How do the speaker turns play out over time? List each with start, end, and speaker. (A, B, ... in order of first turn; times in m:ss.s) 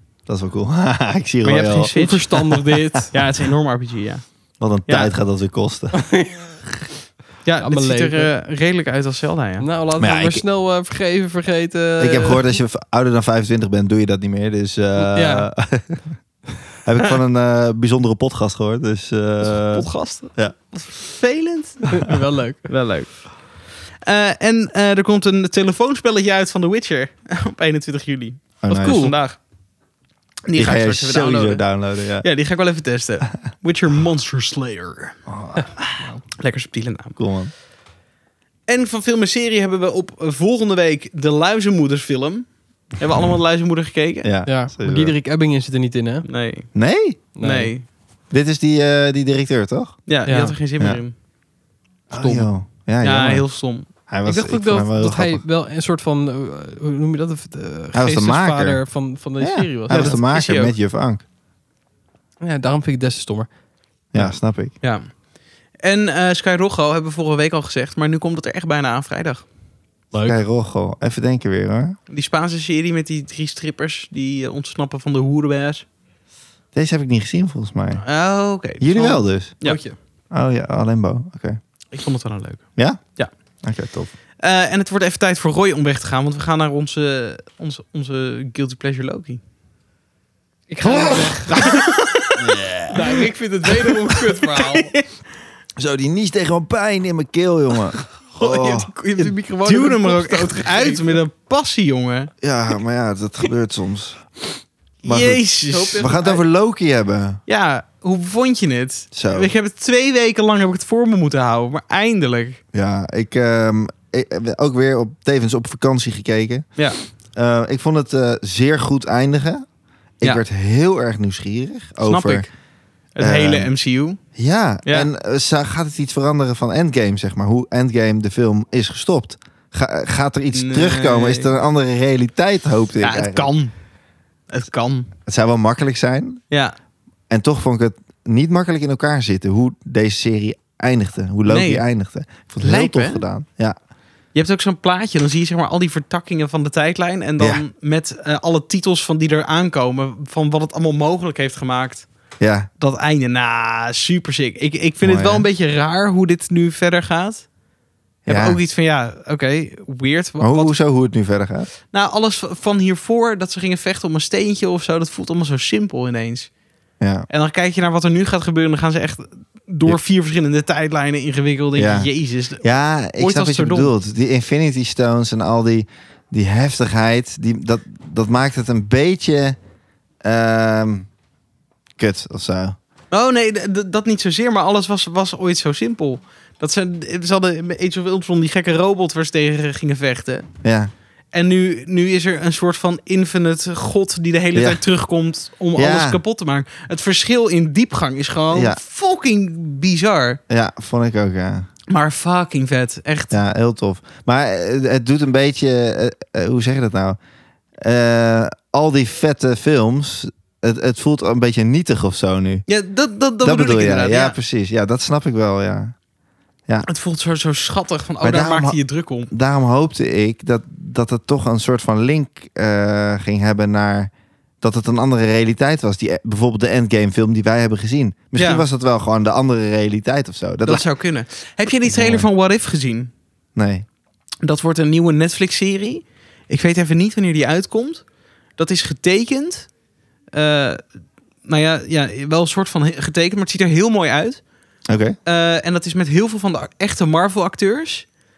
0:00.3-0:01.9 A
0:01.4-0:05.1 B
0:01.9-0:03.1 C
0:04.6-0:06.2 A
0:05.9-0:06.6 C
0:07.4-0:09.7 B
0:07.6-0:08.3 C
0:09.6-0:12.5 C
0:10.0-0:10.4 A
0:12.0-0:16.2 A
0:15.0-0:15.5 C
0:16.8-0:20.5 A
0:19.4-0:22.0 B
0:21.9-0:22.7 C
0:22.6-0:29.4 B
0:28.6-0:29.1 A
0:28.7-0:29.2 C
0:30.5-0:35.2 B
0:30.5-0:32.3 A
0:35.3-0:35.7 A
0:35.6-0:36.2 C
0:35.8-0:37.2 B
0:37.2-0:37.5 A
0:38.7-0:44.3 B
0:44.2-0:45.1 A
0:44.4-0:46.2 C
0:46.2-0:46.7 B
0:46.7-0:47.2 A
0:47.4-0:47.7 C
0:47.4-0:47.8 B
0:48.3-0:50.0 A
0:50.1-0:51.1 B
0:50.3-0:50.5 C
0:52.1-0:53.4 A
0:52.1-0:52.5 C
0:53.0-0:53.9 B
0:54.1-0:55.4 A
0:54.2-1:00.2 C
0:57.9-0:58.8 A
0:59.4-1:01.2 A
0:59.9-1:00.7 B
1:02.4-1:03.5 C
1:04.1-1:04.7 A
1:04.8-1:05.2 B
1:05.8-1:09.4 B
1:10.1-1:10.4 C
1:10.2-1:12.0 A
1:12.1-1:15.8 B
1:16.7-1:18.0 A
1:18.0-1:19.8 B
1:18.8-1:19.6 A
1:19.6-1:20.0 C
1:20.3-1:21.6 A
1:21.9-1:23.3 B
1:22.8-1:24.1 A
1:24.4-1:29.4 B
1:30.7-1:32.4 B
1:30.8-1:31.5 C
1:32.4-1:33.0 A
1:32.9-1:34.9 C
1:33.8-1:35.0 B
1:35.8-1:38.9 A
1:38.4-1:41.2 C
1:39.2-1:42.3 B
1:42.4-1:44.2 A
1:45.0-1:46.2 B
1:45.0-1:47.4 A
1:45.7-1:46.4 C
1:47.5-1:52.6 B
1:49.1-1:49.5 A
1:52.7-1:56.6 A
1:57.3-1:59.6 A
2:00.2-2:02.5 A
2:02.0-2:02.5 B
2:03.1-2:04.2 B
2:03.2-2:03.7 A
2:04.4-2:13.5 A
2:10.5-2:11.5 B
2:13.0-2:13.7 B
2:14.5-2:15.1 B
2:15.2-2:16.4 A
2:17.3-2:23.8 A
2:21.4-2:21.8 B
2:22.6-2:23.2 B
2:24.3-2:32.1 B
2:32.4-2:32.7 A
2:32.8-2:37.5 B
2:35.0-2:35.5 A
2:38.2-2:38.6 A
2:38.2-2:40.8 B
2:40.4-2:41.7 A
2:41.9-2:46.5 B
2:47.0-2:47.2 A
2:47.3-2:53.9 B
2:51.8-2:52.1 A
2:52.6-2:59.6 A
3:00.2-3:01.1 A
3:02.0-3:02.8 A
3:03.1-3:10.5 B
3:10.6-3:10.9 A
3:11.3-3:20.4 B
3:14.5-3:14.8 A
3:15.7-3:16.2 A
3:18.5-3:18.8 A
3:20.5-3:21.7 A
3:21.9-3:23.4 B
3:23.3-3:27.2 A
3:27.8-3:32.6 A
3:32.7-3:34.4 B
3:33.4-3:35.9 A
3:36.8-3:39.3 B
3:38.2-3:38.8 A
3:39.3-3:50.9 A
3:48.4-3:48.6 B
3:50.6-3:53.1 B
3:51.9-3:52.3 A
3:53.6-3:53.8 A
3:54.4-3:59.7 B
4:00.3-4:00.8 B
4:01.4-4:04.4 B
4:04.9-4:05.1 A
4:05.2-4:08.1 B